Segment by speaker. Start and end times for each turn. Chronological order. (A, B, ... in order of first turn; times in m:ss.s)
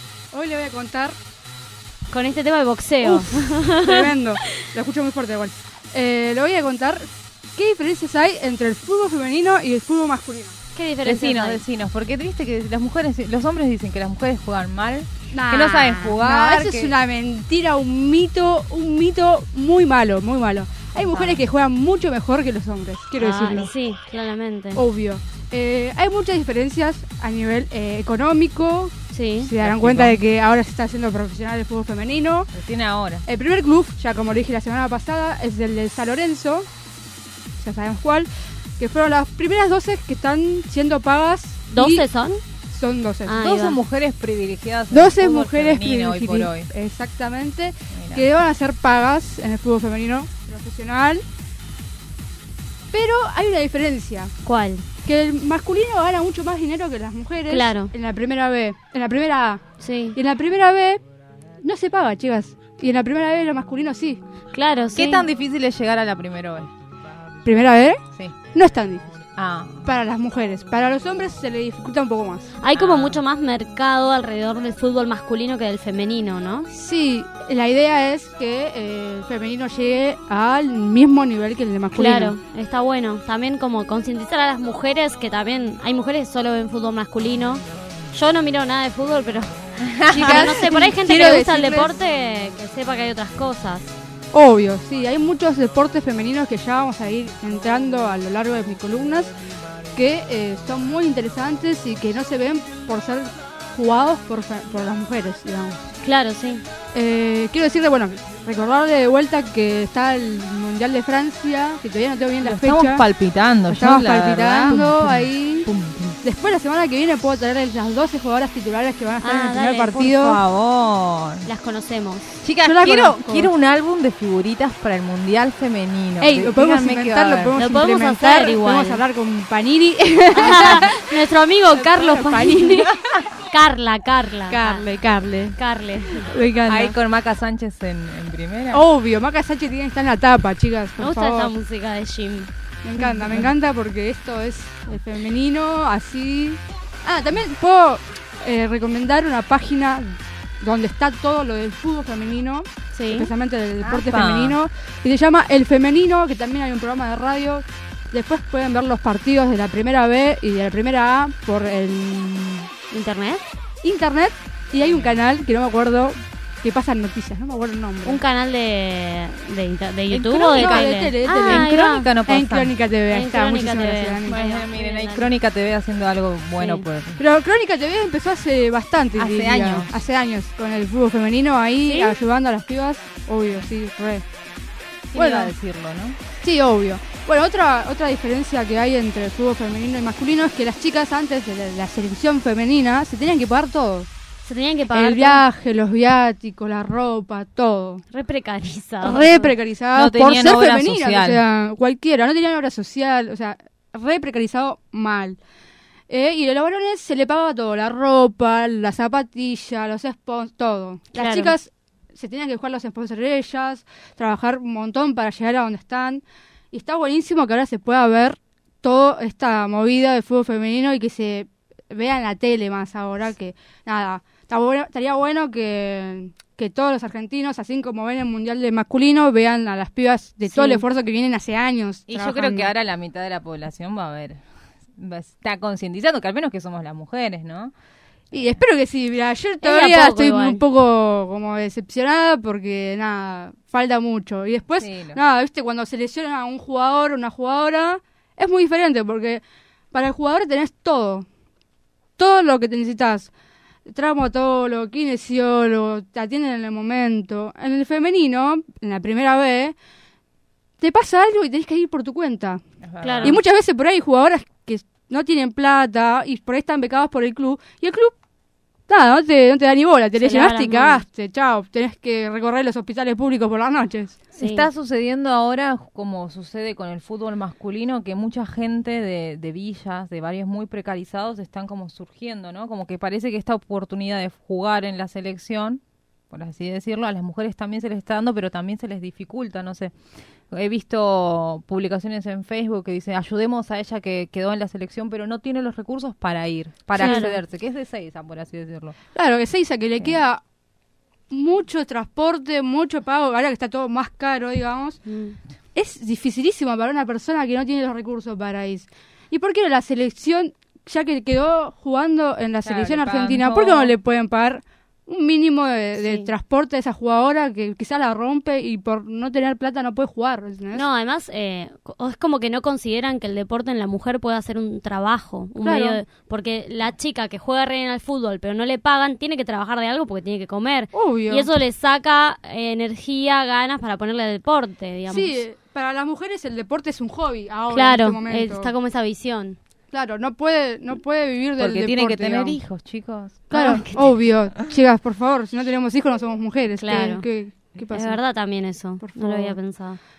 0:00.3-0:01.2 A
0:02.1-0:04.1 B
0:03.0-0:10.6 A
0:10.7-0:11.6 B
0:11.0-0:16.9 C
0:15.3-0:23.7 A
0:20.9-0:21.4 C
0:23.2-0:24.8 B
0:24.7-0:32.5 A
0:29.1-0:29.5 B
0:29.6-0:30.2 C
0:32.5-0:33.2 C
0:33.2-0:36.7 A
0:37.6-0:42.0 A
0:41.7-0:42.4 B
0:42.7-0:43.5 A
0:43.2-0:43.8 B
0:43.4-0:46.7 C
0:44.9-0:51.2 A
0:47.9-0:48.3 C
0:52.9-0:54.3 A
0:54.4-0:54.8 B
0:55.0-0:59.6 A
0:57.5-0:57.9 B
0:59.8-1:00.2 B
1:00.1-1:01.0 A
1:01.6-1:04.2 A
1:04.5-1:05.2 B
1:04.9-1:06.7 C
1:07.4-1:08.0 A
1:08.5-1:09.2 A
1:09.4-1:09.8 C
1:09.8-1:12.5 A
1:12.6-1:16.7 B
1:12.7-1:13.2 C
1:16.7-1:22.3 A
1:21.9-1:33.9 B
1:29.8-1:30.6 C
1:30.1-1:31.9 A
1:34.3-1:39.3 A
1:39.9-1:45.8 A
1:46.0-1:46.6 B
1:46.9-1:53.0 A
1:52.4-1:56.2 C
1:53.7-1:55.7 A
1:56.2-2:00.4 A
1:59.2-2:00.1 B
2:00.0-2:01.5 C
2:01.4-2:02.3 B
2:02.4-2:07.5 C
2:02.6-2:03.5 A
2:06.2-2:11.0 A
2:07.5-2:09.0 B
2:10.4-2:12.9 B
2:11.6-2:12.9 A
2:13.5-2:14.8 B
2:14.5-2:17.0 A
2:15.6-2:16.3 B
2:16.7-2:18.8 C
2:18.7-2:21.5 A
2:21.0-2:22.5 B
2:22.8-2:42.7 A
2:23.0-2:23.5 C
2:32.9-2:33.3 B
2:33.8-2:34.6 C
2:42.9-2:43.4 B
2:43.8-2:48.2 A
2:44.8-2:45.2 C
2:48.0-2:52.1 B
2:50.1-2:52.8 C
2:50.5-2:54.4 A
2:53.1-2:55.3 B
2:54.3-2:57.2 C
2:56.6-2:56.8 B
2:57.2-3:04.2 A
2:59.2-2:59.9 C
3:01.8-3:02.2 B
3:05.1-3:06.2 C
3:05.1-3:05.5 A
3:06.4-3:14.1 A
3:14.4-3:15.4 B
3:14.9-3:18.0 A
3:18.1-3:19.5 B
3:19.0-3:25.4 A
3:19.9-3:21.4 C
3:26.1-3:52.7 A
3:31.1-3:31.5 B
3:50.4-3:50.8 B
3:52.1-3:54.4 C
3:55.0-3:57.7 C
3:58.3-4:11.2 A
3:58.3-3:58.6 C
3:59.6-4:00.6 B
4:04.8-4:05.2 C
4:12.2-4:13.3 A
4:13.9-4:19.8 A
4:20.8-4:22.6 A
4:22.8-4:23.4 C
4:23.0-4:23.4 B
4:23.2-4:28.1 A
4:28.9-4:34.2 A
4:30.2-4:31.0 B
4:34.3-4:34.7 B
4:34.4-4:49.9 C
4:50.5-4:59.0 C
4:56.9-4:57.4 A
4:56.9-4:57.4 B
4:59.1-5:00.4 A
5:01.3-5:05.0 A
5:05.0-5:05.4 B
5:05.7-5:20.8 A
5:12.6-5:13.9 C
5:16.0-5:16.3 B
5:20.7-5:35.4 B
5:25.6-5:26.0 A
5:30.9-5:31.5 A
5:35.1-5:38.7 A
5:37.7-5:39.6 B
5:39.9-5:42.6 A
5:41.6-5:43.5 C
5:43.5-5:44.1 B
5:43.5-5:48.2 A
5:46.8-5:47.2 B
5:47.9-5:50.0 B
5:49.0-5:49.6 A